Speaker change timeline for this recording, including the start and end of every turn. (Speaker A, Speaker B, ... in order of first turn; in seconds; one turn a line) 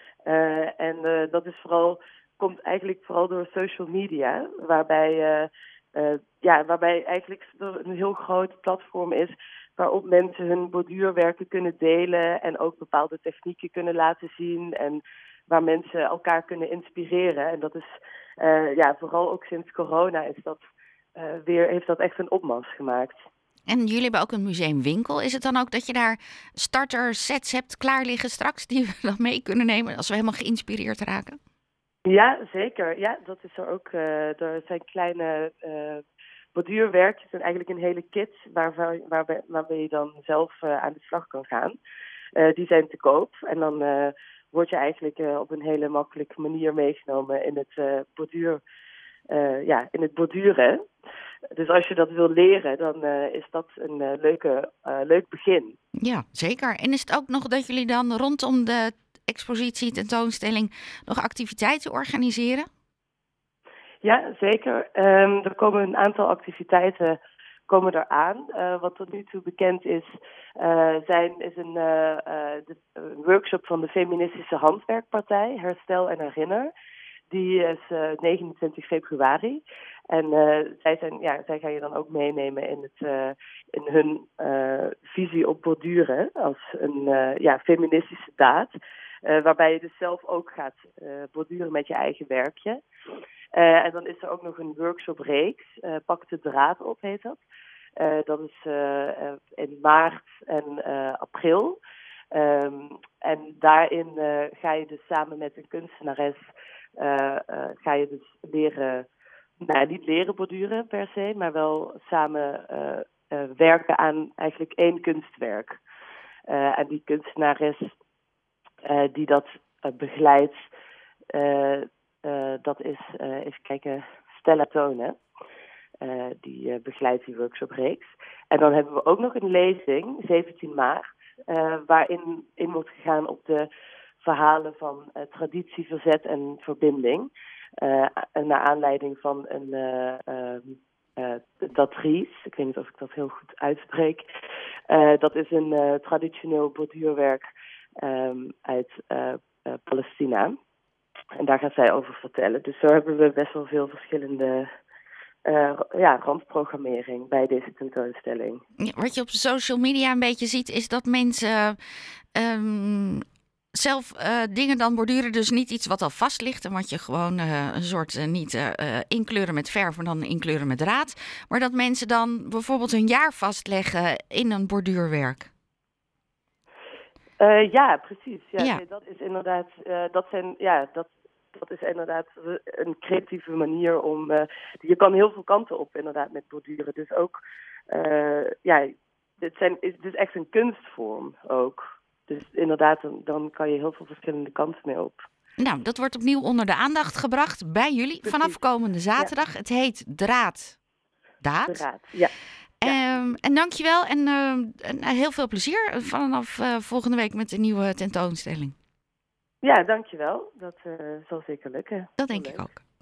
Speaker A: 0.2-20.6
Speaker A: 21.2-23.2
Speaker B: 23.7-31.4
Speaker A: 32.1-41.8
Speaker A: 42.4-48.6
Speaker A: 49.3-50.8
Speaker A: 51.5-55.8
Speaker B: 56.0-62.7
Speaker A: 64.0-76.7
Speaker A: 77.3-92.8
Speaker A: 93.5-97.4
Speaker A: 98.0-101.8
Speaker A: 102.3-106.4
Speaker A: 107.0-109.1
Speaker A: 109.6-115.8
Speaker A: 116.5-117.9
Speaker A: 118.8-120.7
Speaker A: 121.3-125.2
Speaker A: 126.0-144.3
Speaker A: 144.9-147.4
Speaker A: 148.0-150.6
Speaker A: 151.4-154.7
Speaker A: 155.4-158.6
Speaker B: 158.8-161.8
Speaker B: 162.3-175.5
Speaker A: 177.4-195.3
Speaker B: 195.6-200.8
Speaker A: 198.2-198.6
Speaker B: 201.4-201.8
Speaker A: 201.7-202.3
Speaker B: 202.8-208.8
Speaker A: 202.8-203.3
Speaker A: 209.6-212.7
Speaker B: 212.2-212.8